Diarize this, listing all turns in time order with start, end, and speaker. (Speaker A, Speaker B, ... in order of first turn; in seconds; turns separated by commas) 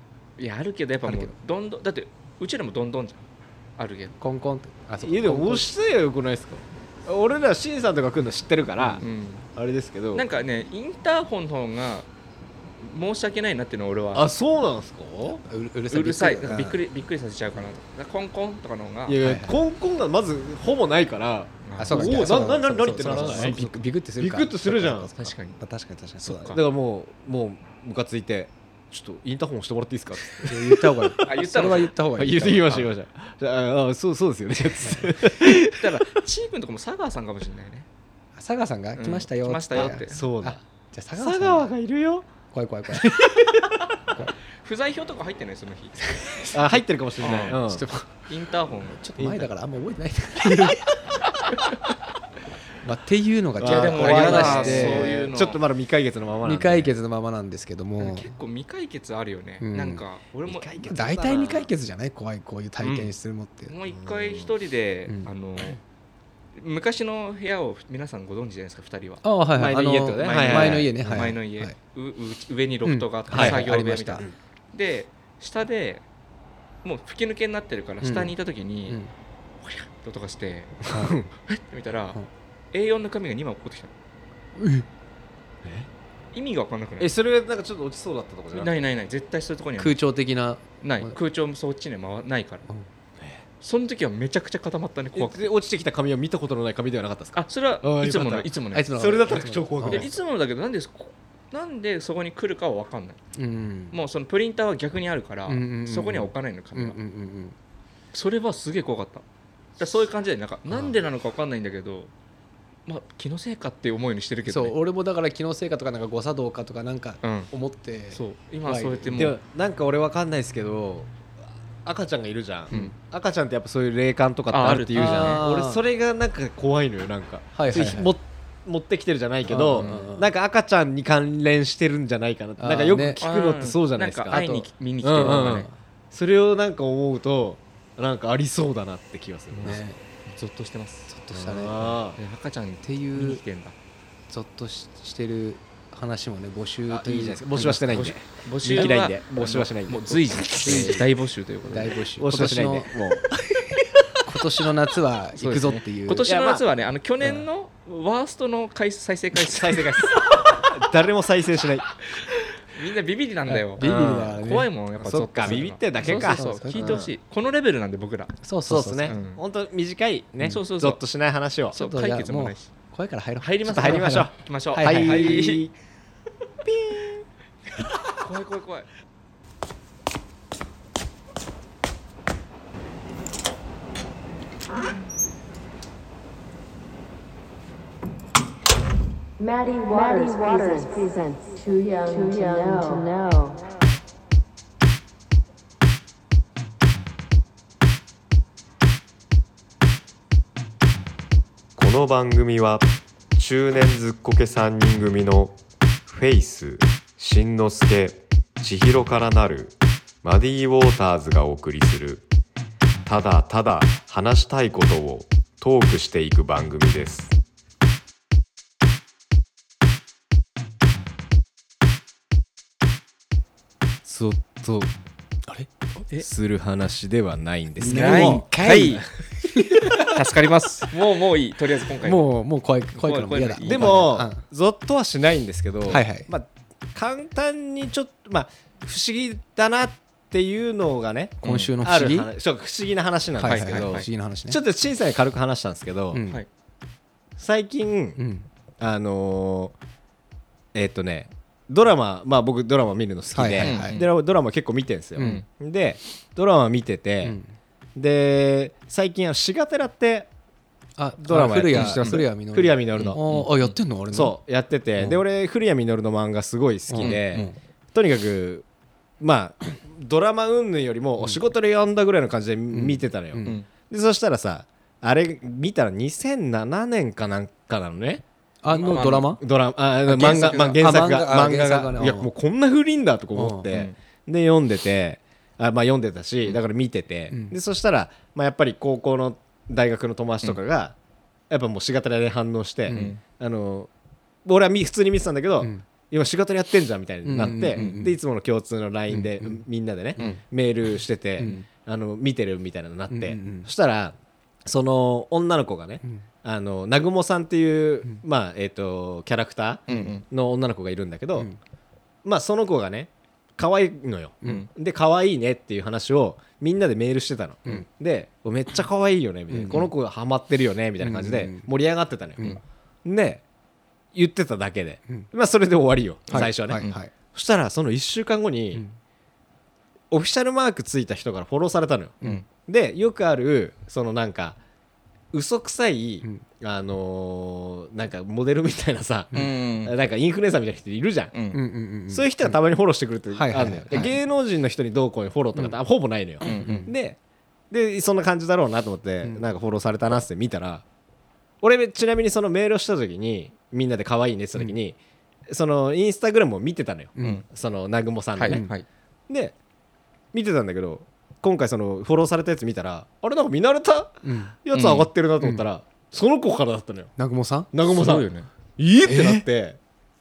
Speaker A: 0.4-3.2, Speaker B: 1.1-1.3, Speaker A: 3.8-4.2, Speaker B: 4.2-5.7, Speaker C: 5.0-10.2, Speaker A: 9.0-9.5, Speaker A: 10.1-12.1, Speaker A: 12.8-14.2, Speaker C: 14.1-15.4, Speaker B: 15.4-16.8, Speaker A: 15.9-19.2, Speaker C: 19.1-25.1, Speaker B: 19.2-19.6, Speaker A: 21.6-23.7, Speaker B: 21.8-26.6, Speaker A: 25.2-25.6, Speaker A: 26.2-26.6, Speaker C: 26.5-31.4, Speaker B: 30.4-32.9, Speaker A: 31.2-31.9, Speaker C: 32.2-36.0, Speaker B: 34.8-35.1, Speaker A: 35.4-37.9, Speaker B: 38.4-41.7, Speaker A: 39.0-40.3, Speaker C: 39.8-40.6, Speaker C: 41.1-42.3, Speaker B: 42.5-43.1, Speaker C: 42.9-43.8, Speaker A: 44.6-46.5, Speaker B: 46.1-46.6, Speaker C: 46.5-47.8, Speaker A: 47.2-47.6, Speaker B: 47.4-48.2, Speaker A: 48.2-49.0, Speaker B: 48.9-51.0, Speaker C: 49.2-49.5, Speaker B: 52.8-55.1, Speaker C: 53.6-56.9, Speaker A: 53.6-55.6, Speaker B: 56.4-58.3, Speaker A: 58.0-60.8, Speaker B: 59.6-60.0, Speaker C: 60.4-61.7, Speaker B: 60.8-63.7, Speaker A: 62.8-63.1, Speaker A: 63.7-65.8, Speaker C: 63.9-64.5, Speaker A: 66.5-76.0, Speaker B: 69.2-71.7, Speaker C: 69.6-71.3, Speaker B: 72.8-74.3, Speaker C: 73.3-73.6, Speaker A: 76.8-79.0, Speaker B: 78.0-78.3, Speaker A: 79.6-82.2, Speaker C: 81.0-81.3, Speaker A: 82.7-83.9, Speaker B: 84.6-84.8, Speaker A: 86.3-87.1, Speaker C: 87.0-88.7, Speaker A: 88.5-90.0, Speaker B: 89.8-91.2, Speaker A: 90.8-92.6, Speaker A: 93.6-95.4, Speaker C: 95.1-100.1, Speaker A: 97.3-103.2, Speaker B: 98.7-100.1, Speaker B: 103.3-104.0, Speaker A: 103.9-107.0, Speaker B: 105.5-107.5, Speaker A: 108.1-109.2, Speaker A: 109.8-112.1, Speaker A: 112.8-114.8, Speaker B: 114.5-119.2, Speaker A: 117.2-117.5, Speaker A: 118.1-119.4, Speaker C: 119.1-121.1, Speaker C: 121.8-134.4, Speaker A: 124.5-125.4, Speaker B: 124.7-125.8, Speaker B: 127.5-128.1, Speaker B: 129.5-130.3, Speaker A: 129.8-130.1, Speaker B: 132.6-133.2, Speaker A: 133.2-135.7, Speaker B: 134.3-134.7, Speaker C: 135.0-139.8, Speaker B: 135.2-135.7, Speaker A: 139.5-141.1, Speaker B: 139.6-140.0, Speaker B: 141.1-141.8, Speaker C: 141.3-142.2, Speaker A: 142.2-143.7, Speaker B: 142.8-143.4, Speaker B: 144.3-147.9, Speaker C: 146.9-151.0, Speaker A: 147.9-152.0, Speaker B: 150.6-151.0, Speaker B: 151.7-152.9, Speaker C: 152.2-153.2, Speaker B: 154.2-156.3, Speaker A: 155.3-160.5, Speaker C: 156.2-156.6, Speaker C: 159.5-161.8, Speaker A: 162.6-168.3, Speaker B: 163.5-164.7, Speaker C: 163.8-164.4, Speaker C: 165.0-167.1, Speaker B: 165.5-167.1, Speaker B: 168.4-169.1, Speaker C: 168.7-171.7, Speaker A: 169.1-169.4, Speaker A: 170.4-171.0, Speaker A: 171.7-172.7, Speaker B: 171.7-175.5, Speaker A: 173.4-175.7, Speaker C: 173.6-175.7, Speaker C: 176.7-177.0, Speaker A: 178.1-178.9, Speaker D: 189.4-193.6, Speaker E: 201.8-205.5, Speaker E: 206.1-212.2, Speaker E: 213.1-217.3, Speaker C: 224.0-224.9, Speaker C: 226.2-229.0, Speaker B: 227.8-230.1, Speaker A: 227.8-229.0, Speaker A: 229.7-232.2, Speaker B: 232.0-234.4, Speaker A: 232.9-234.1, Speaker C: 233.6-246.2, Speaker B: 235.9-236.3, Speaker A: 241.4-241.7, Speaker B: 241.4-242.3, Speaker B: 243.4-244.6, Speaker A: 243.4-244.1, Speaker B: 246.1-246.4, Speaker C: 247.4-248.2, Speaker B: 248.2-248.5, Speaker C: 248.8-249.7, Speaker C: 250.7-257.4, Speaker B: 253.3-253.9, Speaker A: 253.6-254.1, Speaker B: 255.2-255.4, Speaker A: 255.2-255.4, Speaker B: 257.2-257.5, Speaker C: 257.9-260.3, Speaker B: 261.0-264.4, Speaker C: 261.2-263.2, Speaker A: 261.7-262.2, Speaker A: 262.9-263.8, Speaker C: 264.1-268.6, Speaker B: 266.9-267.6, Speaker C: 269.2-278.2, Speaker B: 272.7-273.6, Speaker B: 278.6-279.4, Speaker A: 278.7-279.4, Speaker C: 278.9-290.9, Speaker A: 280.1-280.8, Speaker B: 280.1-282.3, Speaker B: 283.4-283.7, Speaker A: 283.7-283.9, Speaker B: 287.3-287.5, Speaker C: 291.5-293.9, Speaker B: 292.9-293.1, Speaker A: 292.9-293.2, Speaker C: 294.4-311.5, Speaker B: 297.2-298.1, Speaker B: 299.1-299.6, Speaker B: 301.4-301.6, Speaker B: 303.1-303.7, Speaker B: 309.9-310.2, Speaker A: 309.9-310.2, Speaker C: 312.2-322.5, Speaker B: 319.5-319.9, Speaker B: 321.0-321.7, Speaker C: 323.0-323.4, Speaker C: 324.1-328.8, Speaker A: 326.3-327.0, Speaker B: 326.3-327.1, Speaker C: 330.1-334.6, Speaker C: 335.3-341.3, Speaker A: 339.3-339.9, Speaker A: 341.3-341.6, Speaker B: 341.5-342.5, Speaker C: 342.1-347.2, Speaker B: 343.3-344.1, Speaker B: 346.4-346.9, Speaker A: 346.4-346.9, Speaker C: 347.7-350.8, Speaker C: 351.6-355.0, Speaker C: 355.5-358.6, Speaker B: 357.2-357.4, Speaker A: 357.2-357.4, Speaker A: 358.4-358.8, Speaker C: 359.3-359.5, Speaker C: 360.3-367.1, Speaker B: 364.2-364.6, Speaker A: 364.7-365.1, Speaker B: 367.2-367.7, Speaker C: 367.7-369.8, Speaker A: 367.9-368.5, Speaker B: 369.0-369.4